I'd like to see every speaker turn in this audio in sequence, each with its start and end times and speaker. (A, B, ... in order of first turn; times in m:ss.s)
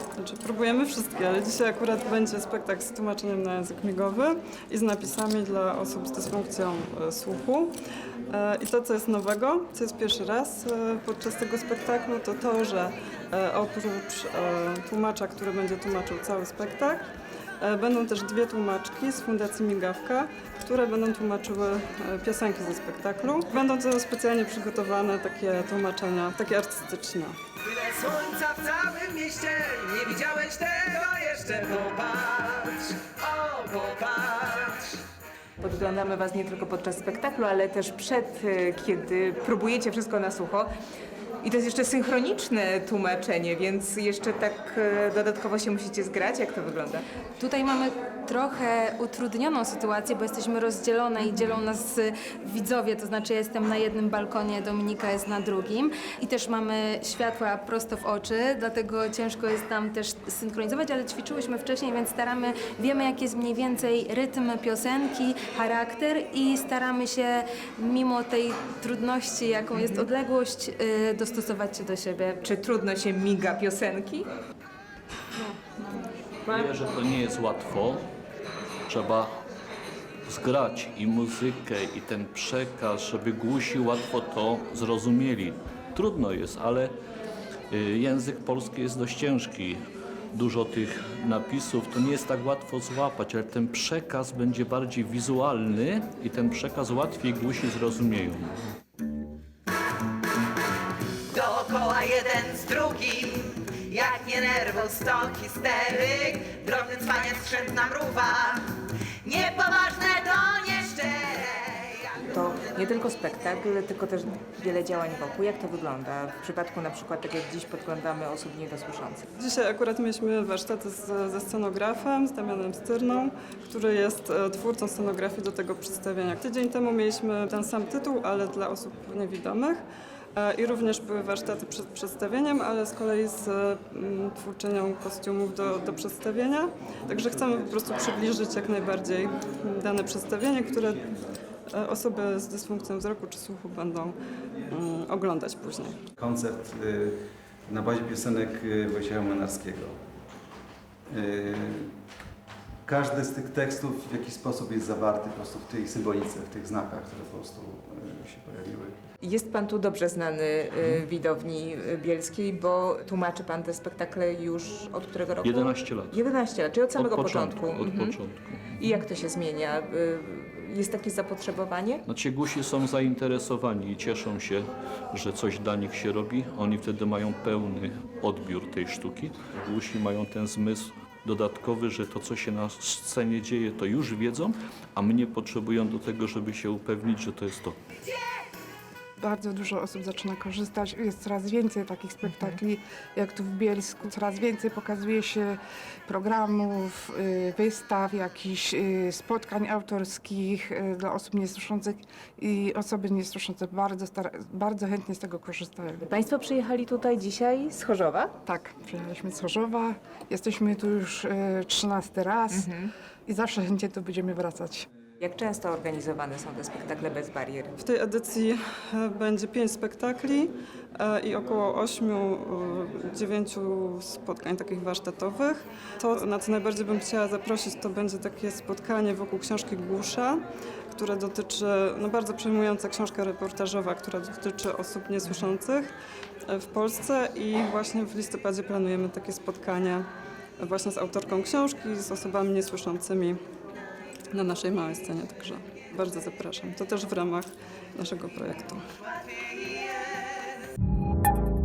0:00.2-0:07.7 A
0:08.3-0:17.1 A
0:17.6-0:27.3 A
0:27.7-0:34.8 B
0:35.6-0:40.7 C
0:41.4-0:47.0 C
0:47.4-1:12.4 D
0:51.2-0:51.6 C
1:09.7-1:10.1 C
1:12.4-1:14.3 C
1:16.4-1:18.1 E
1:18.9-1:19.3 E
1:20.3-1:26.9 E
1:27.7-1:29.8 E
1:30.3-1:38.5 E
1:41.3-1:52.1 B
1:52.3-1:59.2 C
1:59.4-2:09.8 A
2:10.4-2:21.0 A
2:21.7-2:24.2 A
2:24.7-2:26.0 A
2:26.2-2:27.1 F
2:27.7-2:29.9 F
2:31.1-2:31.8 F
2:32.9-2:38.9 F
2:39.2-2:48.2 C
2:45.4-2:46.3 E
2:46.9-2:48.9 E
2:48.8-2:52.0 C
2:52.0-3:07.8 E
3:09.2-3:26.0 G
3:26.0-3:28.3 C
3:28.4-3:32.7 G
3:32.5-3:32.9 C
3:33.3-3:34.8 G
3:35.2-3:37.7 C
3:37.8-3:50.4 A
3:50.9-3:55.9 A
3:56.5-4:00.0 A
4:00.6-4:03.4 A
4:04.3-4:08.8 A